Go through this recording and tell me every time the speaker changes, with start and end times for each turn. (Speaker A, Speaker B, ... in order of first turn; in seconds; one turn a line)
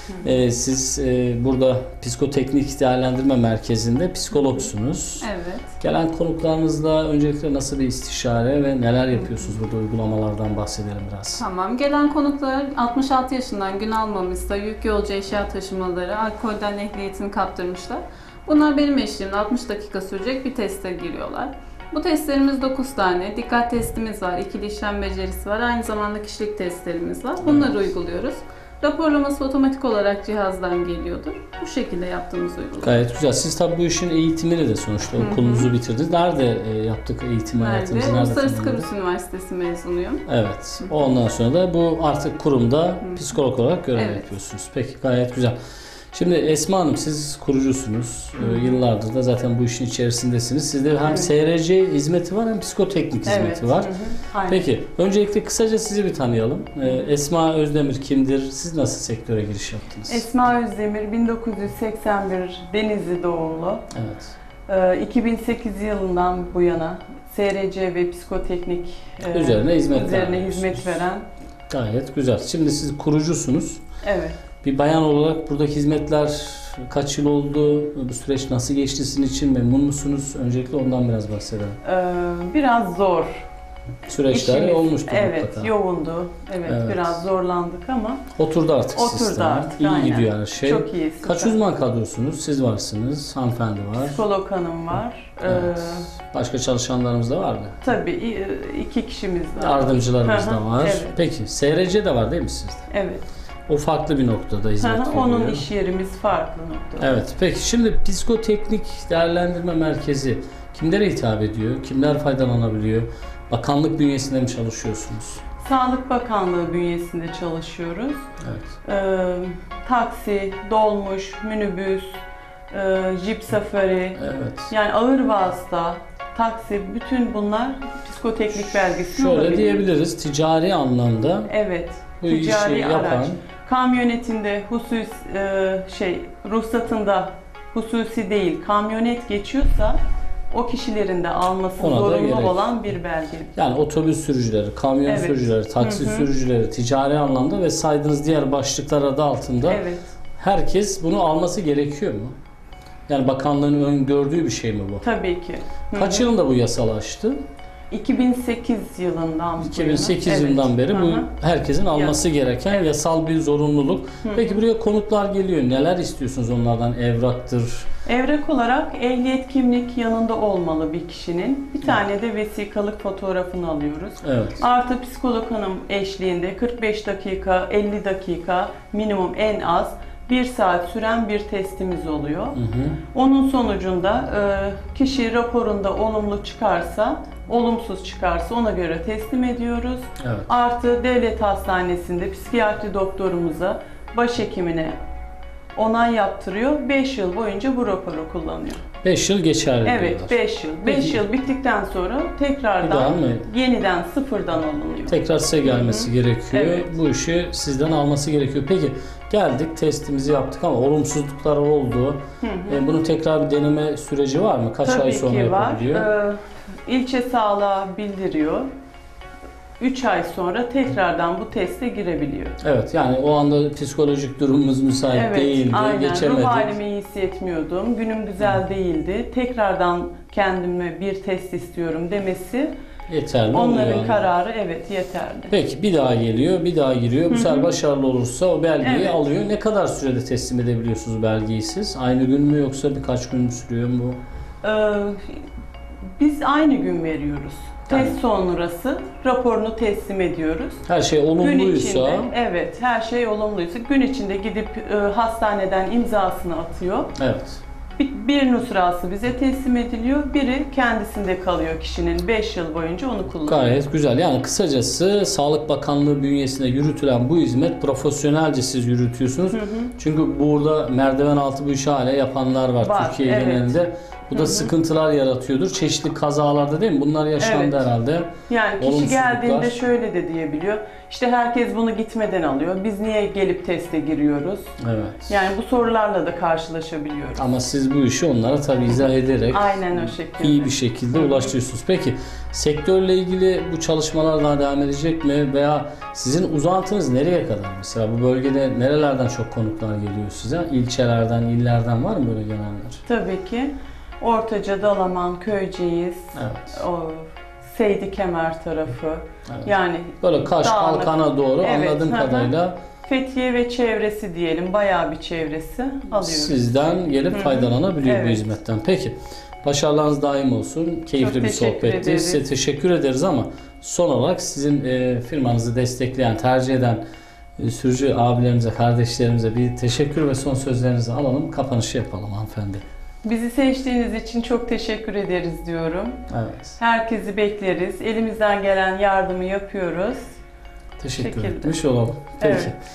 Speaker A: 0.2-5.3
Speaker B: 5.2-5.7
Speaker A: 5.8-11.4
Speaker B: 11.4-33.0
Speaker A: 27.4-27.9
Speaker A: 32.8-38.9
Speaker B: 35.1-35.7
Speaker B: 37.6-40.2
Speaker A: 40.3-45.5
Speaker B: 43.9-44.3
Speaker A: 46.1-53.9
Speaker C: 51.0-51.3
Speaker C: 53.2-54.6
Speaker A: 54.5-60.2
Speaker C: 60.1-63.9
Speaker A: 63.9-64.3
Speaker C: 64.7-71.2
Speaker A: 69.3-71.0
Speaker A: 71.7-73.8
Speaker C: 74.0-74.4
Speaker A: 74.6-81.8
Speaker C: 81.8-83.4
Speaker A: 84.1-85.7
Speaker C: 84.2-88.2
Speaker A: 86.7-87.2
Speaker A: 88.3-94.2
Speaker C: 88.9-91.6
Speaker C: 93.9-96.1
Speaker A: 95.4-97.8
Speaker C: 97.8-101.2
Speaker A: 99.6-102.8
Speaker C: 102.9-103.2
Speaker A: 103.7-105.7
Speaker C: 104.8-107.2
Speaker A: 107.0-115.4
Speaker C: 115.6-118.2
Speaker A: 118.4-118.7
Speaker C: 118.8-122.2
Speaker C: 122.7-129.9
Speaker A: 124.2-124.7
Speaker A: 128.8-131.5
Speaker C: 131.5-143.5
Speaker A: 132.2-133.4
Speaker A: 141.8-142.8
Speaker A: 143.6-149.8
Speaker C: 145.0-146.3
Speaker C: 149.7-150.1
Speaker A: 150.4-152.3
Speaker A: 153.1-155.0
Speaker C: 155.0-156.3
Speaker A: 155.9-157.4
Speaker C: 157.9-161.3
Speaker A: 159.6-167.9
Speaker C: 161.9-162.2
Speaker C: 164.2-164.6
Speaker C: 168.1-182.6
Speaker A: 174.2-174.6
Speaker A: 182.5-183.0
Speaker C: 183.1-194.9
Speaker A: 190.2-190.5
Speaker C: 195.8-198.8
Speaker A: 199.0-201.2
Speaker C: 199.8-206.9
Speaker A: 202.8-203.5
Speaker A: 205.1-216.1
Speaker C: 212.4-212.8
Speaker C: 214.8-218.7
Speaker C: 219.8-222.6
Speaker A: 222.6-226.7
Speaker C: 225.1-232.7
Speaker A: 233.1-234.2
Speaker C: 233.5-235.5
Speaker A: 235.5-244.2
Speaker C: 237.3-237.7
Speaker C: 238.8-239.2
Speaker C: 244.6-245.3
Speaker C: 246.2-250.8
Speaker A: 247.9-248.1
Speaker A: 250.9-252.3
Speaker C: 251.4-257.1
Speaker A: 257.2-257.6
Speaker C: 258.0-263.8
Speaker A: 263.4-279.8
Speaker C: 269.5-269.9
Speaker C: 272.8-273.8
Speaker C: 274.3-274.7
Speaker C: 277.4-277.9
Speaker C: 278.5-284.7
Speaker A: 284.8-285.4
Speaker C: 285.3-287.4
Speaker A: 287.4-303.0
Speaker C: 289.5-291.5
Speaker C: 303.1-312.5
Speaker A: 306.3-306.8
Speaker A: 309.5-312.8
Speaker C: 313.1-316.6
Speaker A: 316.1-327.0
Speaker C: 317.3-318.5
Speaker C: 321.1-322.4
Speaker A: 327.6-332.8
Speaker C: 333.2-336.2
Speaker A: 336.3-336.8
Speaker C: 336.8-340.2
Speaker A: 341.0-342.8
Speaker C: 341.2-341.8
Speaker C: 342.4-342.7